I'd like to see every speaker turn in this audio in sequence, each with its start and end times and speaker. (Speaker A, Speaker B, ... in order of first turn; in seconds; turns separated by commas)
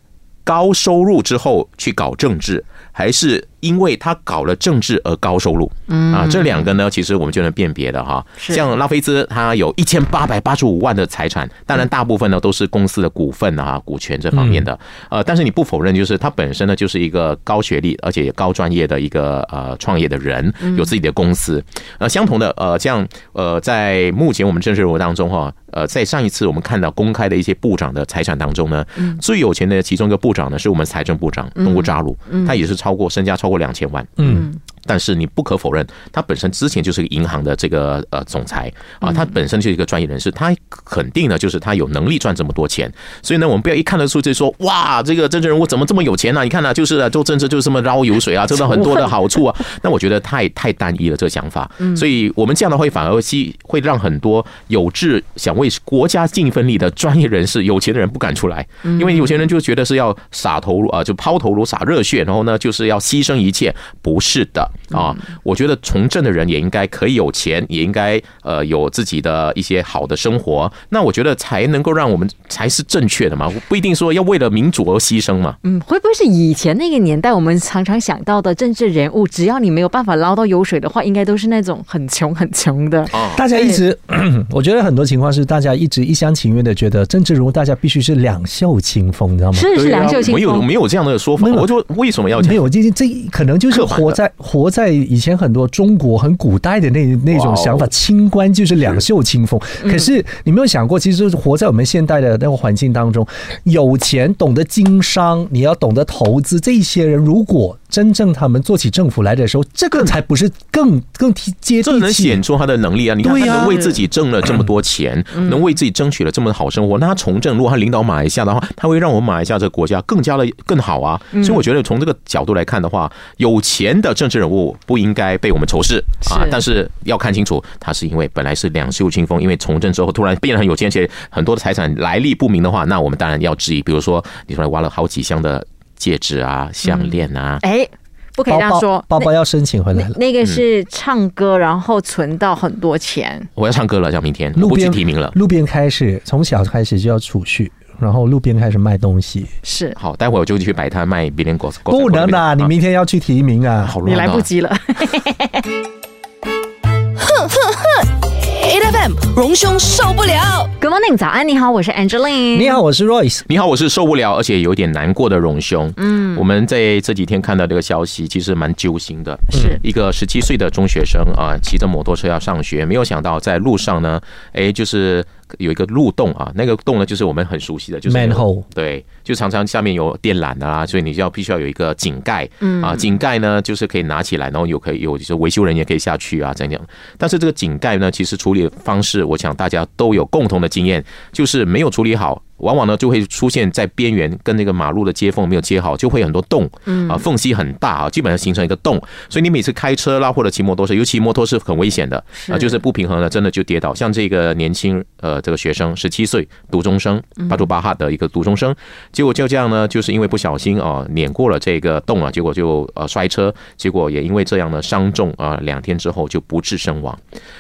Speaker A: 0.5-75.6, Speaker B: 5.9-6.6, Speaker C: 14.3-14.7, Speaker B: 31.6-32.6, Speaker C: 34.2-34.5, Speaker B: 34.2-34.6, Speaker B: 39.0-39.3, Speaker B: 58.8-59.4, Speaker B: 75.6-83.8, Speaker A: 83.1-83.4, Speaker C: 83.3-89.7, Speaker B: 89.5-90.7, Speaker A: 89.7-92.6, Speaker C: 91.4-91.7, Speaker C: 92.4-112.4, Speaker A: 93.7-94.2, Speaker A: 97.3-97.9, Speaker A: 111.8-137.6, Speaker C: 113.2-113.8, Speaker B: 113.5-114.0, Speaker B: 121.3-121.6, Speaker B: 126.2-126.6, Speaker B: 136.8-139.3, Speaker C: 138.5-140.2, Speaker B: 139.9-143.5, Speaker A: 143.6-145.3, Speaker C: 144.6-149.5, Speaker B: 149.6-150.0, Speaker A: 150.0-152.7, Speaker C: 151.9-154.0, Speaker A: 153.8-154.5, Speaker B: 154.0-155.6, Speaker D: 157.2-160.7, Speaker B: 160.8-162.8, Speaker C: 162.5-163.4, Speaker A: 163.5-217.2, Speaker B: 166.0-166.4, Speaker B: 169.5-169.8, Speaker C: 178.1-178.6, Speaker B: 182.6-183.0, Speaker B: 196.9-197.2, Speaker B: 202.4-202.8